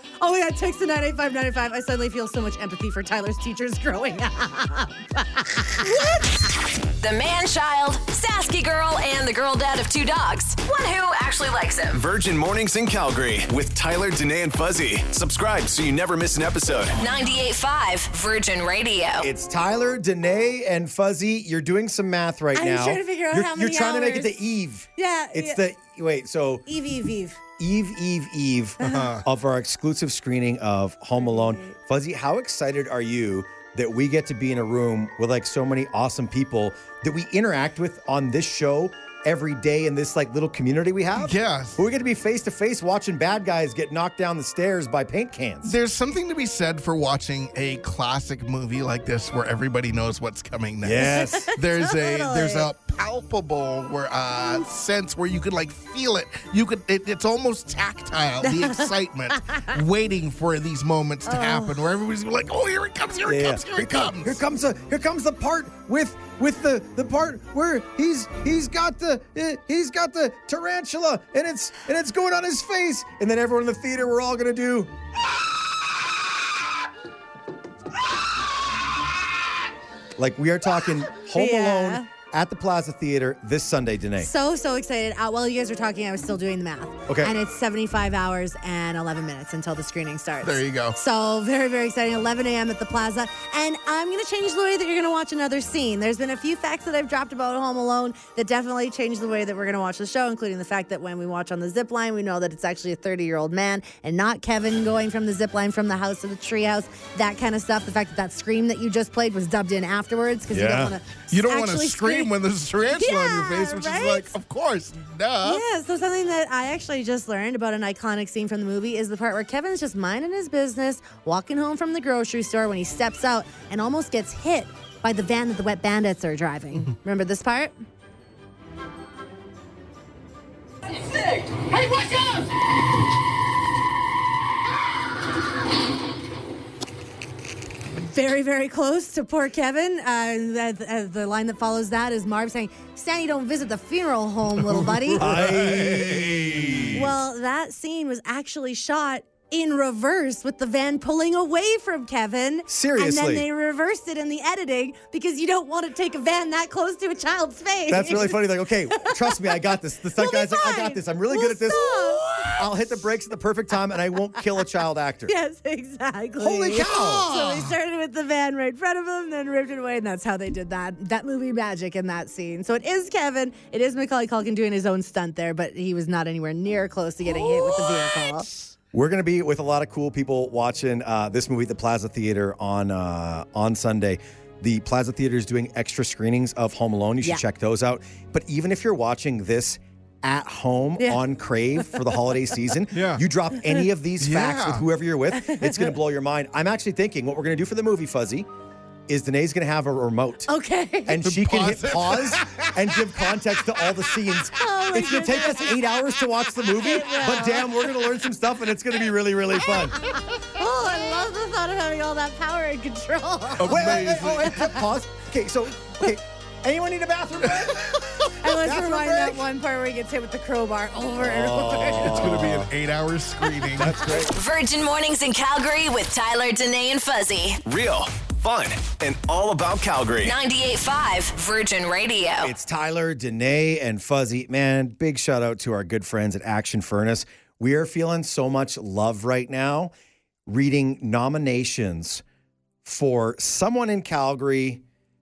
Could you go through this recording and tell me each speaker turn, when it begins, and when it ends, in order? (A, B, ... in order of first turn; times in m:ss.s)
0:00.2-0:06.4 A
0:07.0-0:12.0 B
0:11.9-0:17.0 C
0:17.0-0:19.3 B
0:19.2-0:26.7 D
0:22.6-0:24.4 A
0:25.0-0:25.6 A
0:26.7-0:27.4 A
0:27.6-0:45.8 D
0:28.8-0:29.2 E
0:28.8-0:29.1 A
0:31.2-0:31.8 A
0:41.2-0:41.8 E
0:45.6-1:04.4 E
0:50.8-0:51.5 D
0:51.0-0:52.7 A
0:58.4-0:58.9 A
1:01.3-1:01.8 A
1:03.2-1:14.9 D
1:20.2-1:24.3 D
1:21.4-1:22.1 A
1:24.2-1:52.3 A
1:27.1-1:27.3 D
1:30.4-1:31.0 E
1:50.5-1:51.0 D
1:51.3-1:55.6 E
1:52.9-1:54.3 A
1:55.4-2:07.7 A
2:18.0-2:25.3 A
2:24.6-2:26.9 E
2:25.2-2:27.1 D
2:27.0-2:42.7 A
2:32.7-2:33.5 D
2:37.9-2:45.3 D
2:45.3-2:58.5 A
2:46.4-2:47.3 D
2:47.2-2:47.7 E
2:57.2-2:58.7 E
2:58.9-3:18.5 D
3:11.8-3:12.4 A
3:12.9-3:13.2 E
3:14.2-3:14.9 E
3:15.4-3:16.0 A
3:19.1-3:20.5 D
3:20.5-3:21.2 A
3:21.1-3:30.0 D
3:21.2-3:22.9 E
3:24.6-3:25.8 A
3:26.7-3:28.1 A
3:29.6-3:34.1 A
3:33.6-3:34.6 E
3:33.6-3:39.4 D
3:37.7-3:38.0 E
3:38.4-3:42.4 A
3:41.2-3:42.7 D
3:42.0-3:44.1 E
3:43.8-3:44.3 D
3:44.3-3:47.6 B
3:47.6-3:50.4 C
3:50.2-3:52.5 B
3:52.4-3:59.9 D
4:00.5-4:02.2 D
4:02.8-4:04.8 D